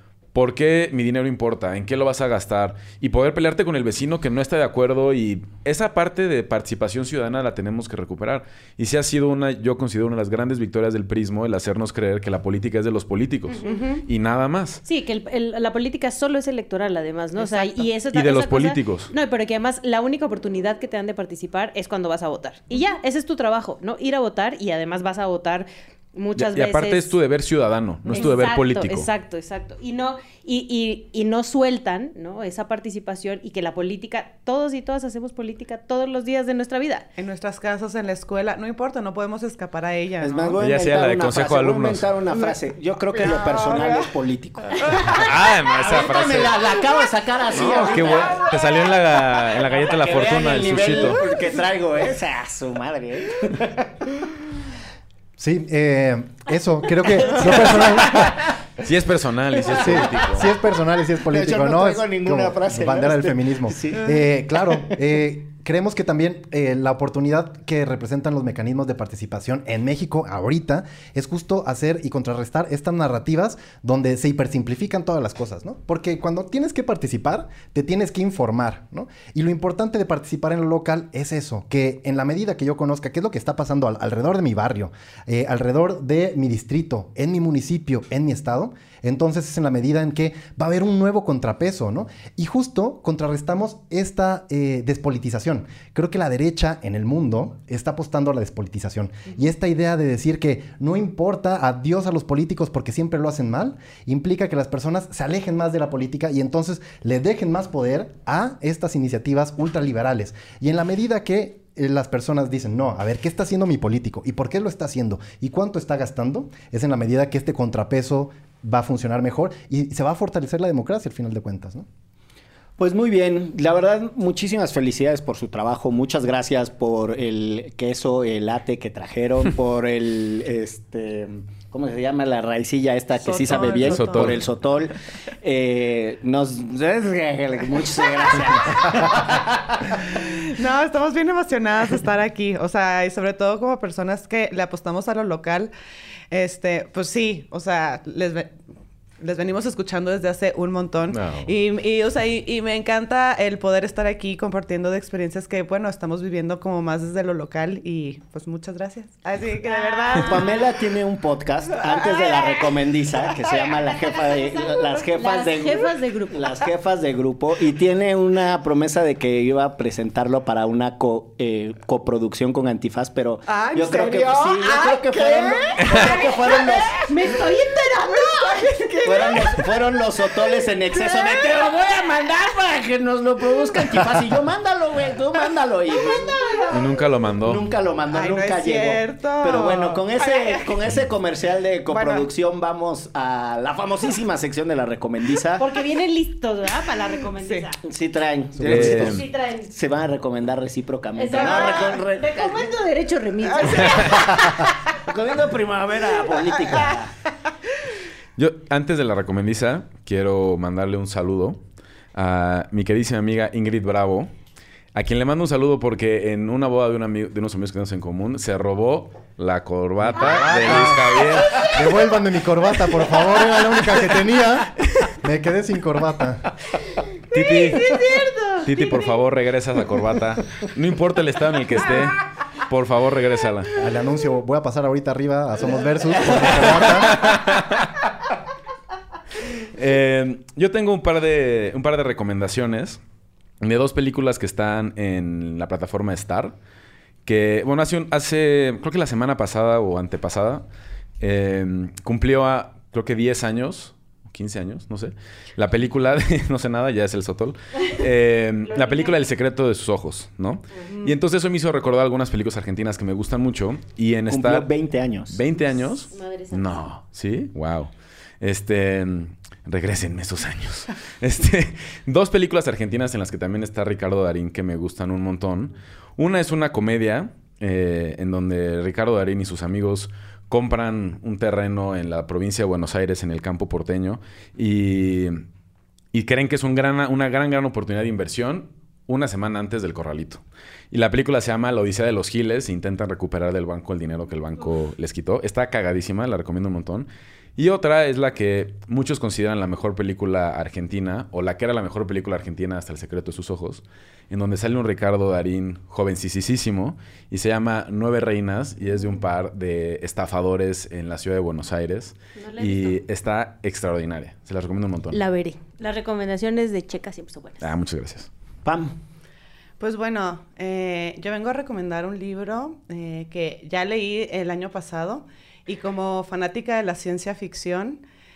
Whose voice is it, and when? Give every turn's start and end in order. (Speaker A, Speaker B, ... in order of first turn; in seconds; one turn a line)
Speaker A: 0.3-14.8
Speaker B: 13.5-14.0
Speaker C: 13.7-14.0
Speaker B: 14.8-27.1
Speaker C: 17.4-17.8
Speaker A: 18.1-19.1
Speaker A: 26.3-29.1
Speaker B: 28.1-37.0
Speaker C: 37.2-40.6
Speaker D: 40.2-45.0
Speaker A: 40.6-42.1
Speaker C: 43.1-44.1
Speaker C: 44.8-45.2
Speaker A: 45.1-46.6
Speaker D: 45.7-48.5
Speaker A: 47.5-51.2
Speaker D: 49.6-53.9
Speaker E: 55.4-58.5
Speaker D: 57.1-58.5
Speaker A: 58.8-60.5
Speaker E: 59.7-121.8
Speaker D: 61.3-64.8
Speaker D: 122.8-140.1
Speaker C: 133.2-134.3
Speaker A: 133.8-134.4
Speaker C: 140.5-145.7
Speaker C: 146.3-148.5
Speaker C: 149.2-160.3
Speaker A: 151.1-151.5
Speaker D: 160.2-177.1
Speaker B: 163.5-166.5
Speaker C: 173.5-176.7
Speaker B: 177.0-178.7
Speaker C: 178.3-179.4
Speaker D: 179.0-186.8
Speaker A: 186.7-187.6
Speaker D: 187.4-195.6
Speaker C: 188.1-190.7
Speaker C: 191.9-192.2
Speaker B: 195.6-197.8
Speaker C: 197.4-197.7
Speaker D: 197.8-202.7
Speaker E: 198.6-199.2
Speaker A: 198.6-199.2
Speaker B: 198.9-199.7
Speaker B: 201.2-204.7
Speaker C: 201.4-201.7
Speaker A: 203.8-204.1
Speaker D: 205.0-207.1
Speaker A: 208.4-211.6
Speaker A: 212.1-214.3
Speaker A: 214.9-221.8
Speaker E: 220.2-221.0
Speaker E: 221.7-226.5
Speaker A: 227.3-228.1
Speaker B: 227.3-229.0
Speaker A: 228.6-233.7
Speaker E: 233.8-237.2
Speaker A: 236.5-237.9
Speaker A: 239.8-243.0
Speaker A: 243.6-246.5
Speaker A: 247.2-250.6
Speaker A: 251.2-264.7
Speaker B: 258.6-259.3
Speaker D: 264.3-265.4
Speaker A: 265.3-285.4
Speaker B: 266.1-266.9
Speaker A: 286.1-315.2
Speaker B: 312.3-313.0
Speaker B: 315.1-317.7
Speaker A: 317.6-318.3
Speaker D: 318.6-319.0
Speaker C: 319.8-328.0